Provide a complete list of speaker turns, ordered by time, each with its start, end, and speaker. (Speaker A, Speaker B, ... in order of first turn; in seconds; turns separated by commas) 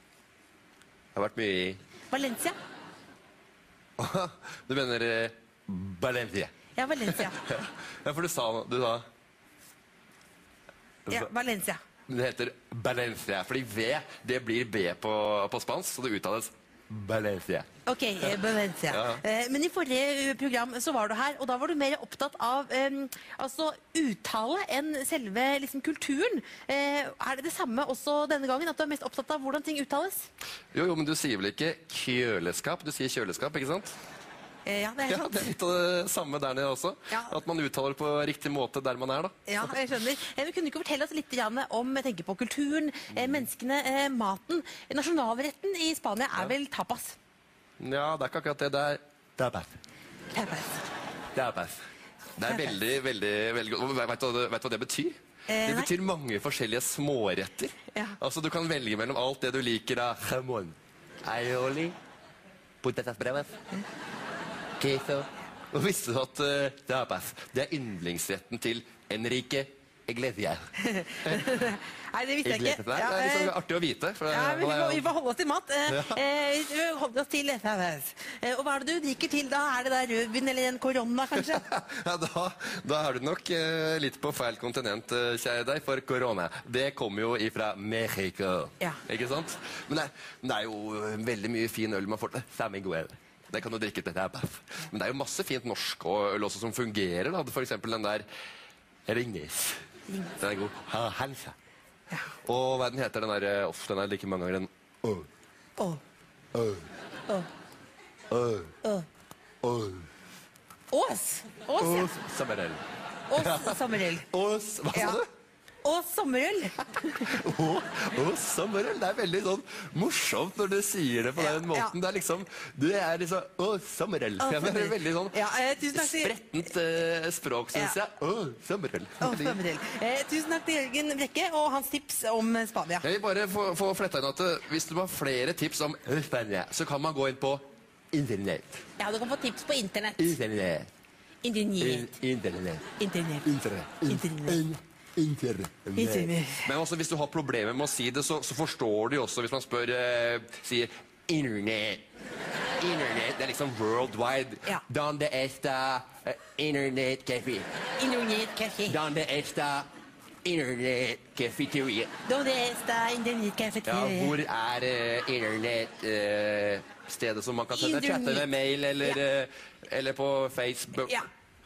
Speaker A: 1.1-1.8, Speaker B: 2.1-2.6, Speaker A: 4.0-6.5, Speaker B: 6.7-7.4, Speaker A: 7.0-9.0, Speaker B: 11.1-11.8, Speaker A: 12.1-17.7, Speaker B: 17.9-30.3, Speaker A: 18.9-19.2, Speaker A: 30.7-33.9, Speaker B: 34.6-35.5, Speaker A: 35.0-39.8, Speaker B: 37.1-37.3, Speaker B: 39.5-47.2, Speaker A: 47.8-49.8, Speaker B: 50.3-50.8, Speaker A: 51.3-51.8, Speaker A: 52.4-62.0, Speaker B: 52.4-52.8, Speaker B: 55.5-55.9, Speaker A: 62.8-63.6, Speaker A: 64.8-70.7, Speaker B: 70.8-73.5, Speaker A: 72.4-75.1, Speaker B: 74.3-81.7, Speaker A: 75.9-76.2, Speaker A: 81.3-98.2, Speaker A: 99.1-99.8, Speaker A: 100.4-101.5, Speaker A: 102.4-105.3, Speaker A: 106.5-106.8, Speaker A: 108.3-108.7, Speaker A: 109.6-110.0, Speaker B: 110.9-112.2, Speaker A: 111.8-112.8, Speaker B: 113.3-114.2, Speaker A: 113.3-115.2, Speaker B: 114.9-115.2, Speaker B: 115.8-117.4, Speaker A: 117.2-125.4, Speaker B: 121.4-121.9, Speaker B: 124.4-126.3, Speaker A: 125.9-129.6, Speaker B: 129.2-133.1, Speaker A: 133.0-138.8, Speaker B: 139.0-140.4, Speaker A: 140.2-140.9, Speaker B: 141.4-142.2, Speaker A: 141.8-142.8, Speaker B: 143.0-144.6, Speaker A: 143.4-152.0, Speaker B: 145.9-146.7, Speaker A: 152.8-157.7, Speaker B: 158.0-159.0, Speaker A: 158.9-159.9, Speaker A: 160.4-162.1, Speaker B: 162.2-164.4, Speaker A: 163.8-171.2, Speaker B: 167.7-168.5